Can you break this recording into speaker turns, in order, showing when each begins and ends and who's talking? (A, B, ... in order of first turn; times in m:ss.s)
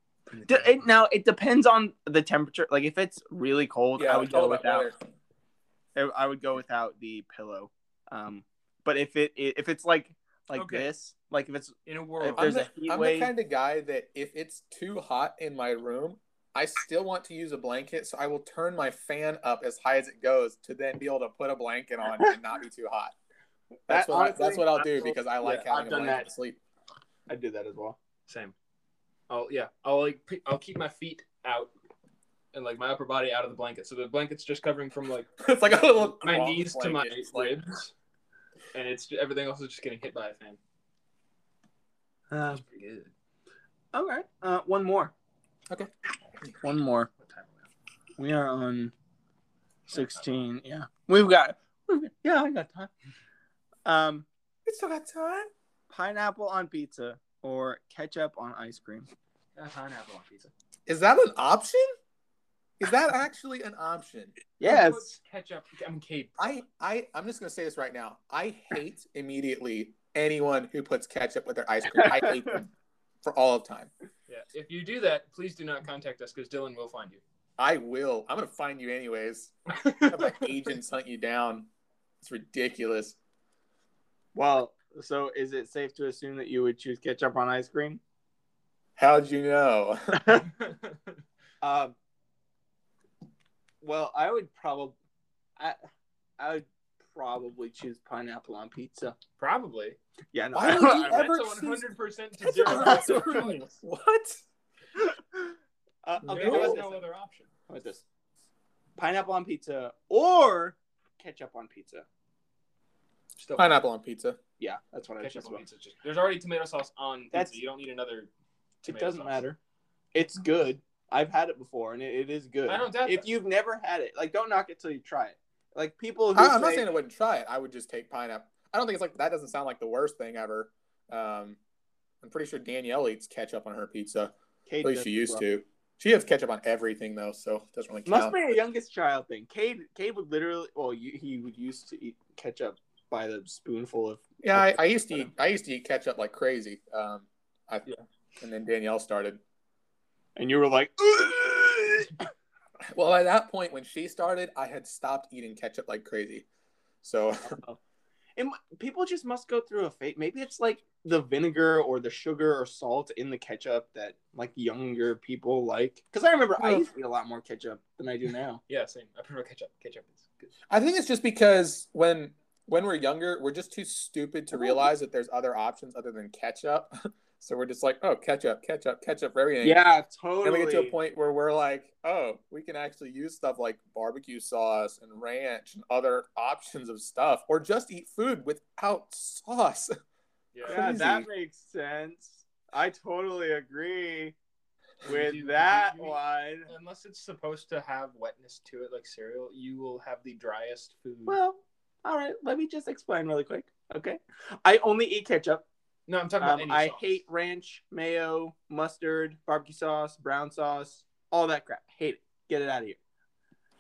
0:00.3-0:00.8 A
0:00.5-0:04.9 B
0:04.0-0:05.0 C
0:06.0-0:13.3 B
0:10.5-0:10.9 A
0:11.9-0:12.5 A
0:12.4-0:23.1 C
0:23.9-0:26.3 B
0:23.9-0:26.6 C
0:27.3-0:28.0 B
0:28.3-0:28.5 A
0:29.3-0:31.7 A
0:32.5-0:35.3 A
0:35.4-0:37.6 C
0:36.2-0:37.9 A
0:38.7-0:40.6 A
0:42.3-0:42.6 B
0:42.5-0:43.1 A
0:43.9-0:45.1 B
0:46.6-0:47.1 B
0:47.2-0:47.7 A
0:48.2-0:48.9 B
0:49.9-0:50.3 A
0:49.9-0:52.9 B
0:53.9-0:54.3 B
0:54.7-0:55.5 C
0:55.9-0:59.1 B
0:59.6-1:00.5 A
1:00.9-1:01.9 C
1:02.8-1:04.4 C
1:04.6-1:05.1 B
1:04.6-1:06.3 A
1:06.4-1:12.7 C
1:12.0-1:12.4 B
1:13.2-1:13.9 C
1:14.3-1:17.2 A
1:17.6-1:21.7 C
1:19.7-1:20.5 A
1:22.2-1:23.2 C
1:24.4-1:28.0 B
1:29.0-1:30.4 C
1:30.2-1:30.5 B
1:30.6-1:31.1 A
1:31.6-1:32.0 B
1:33.8-1:35.0 B
1:36.4-1:39.2 B
1:39.4-1:40.0 A
1:40.3-1:41.3 B
1:40.5-1:41.9 C
1:40.6-1:43.7 A
1:42.4-1:44.4 C
1:42.7-1:43.2 B
1:45.2-1:45.5 B
1:46.0-1:47.0 B
1:46.3-1:46.8 C
1:46.3-1:47.5 A
1:47.7-1:48.0 B
1:49.0-1:52.1 B
1:53.4-1:53.8 A
1:53.6-1:54.4 C
1:54.6-1:55.6 B
1:55.2-1:58.3 A
1:57.3-1:57.6 B
1:58.8-1:59.4 A
1:58.8-1:59.6 B
2:00.1-2:06.9 B
2:02.7-2:03.3 A
2:06.4-2:11.6 C
2:12.2-2:18.6 C
2:14.7-2:15.4 B
2:18.1-2:25.3 B
2:24.4-2:27.9 C
2:28.4-2:29.4 C
2:30.4-2:32.2 B
2:32.9-2:36.5 C
2:37.0-2:37.6 C
2:37.4-2:37.8 B
2:38.4-2:48.6 B
2:46.6-2:46.8 C
2:48.7-2:50.5 A
2:50.7-2:59.8 C
2:54.5-2:54.9 B
2:59.6-3:00.9 B
3:00.4-3:09.9 C
3:10.5-3:10.9 A
3:10.6-3:11.3 C
3:10.7-3:14.4 B
3:15.0-3:16.7 B
3:15.0-3:21.4 A
3:21.3-3:25.6 B
3:26.1-3:27.2 A
3:26.4-3:33.0 B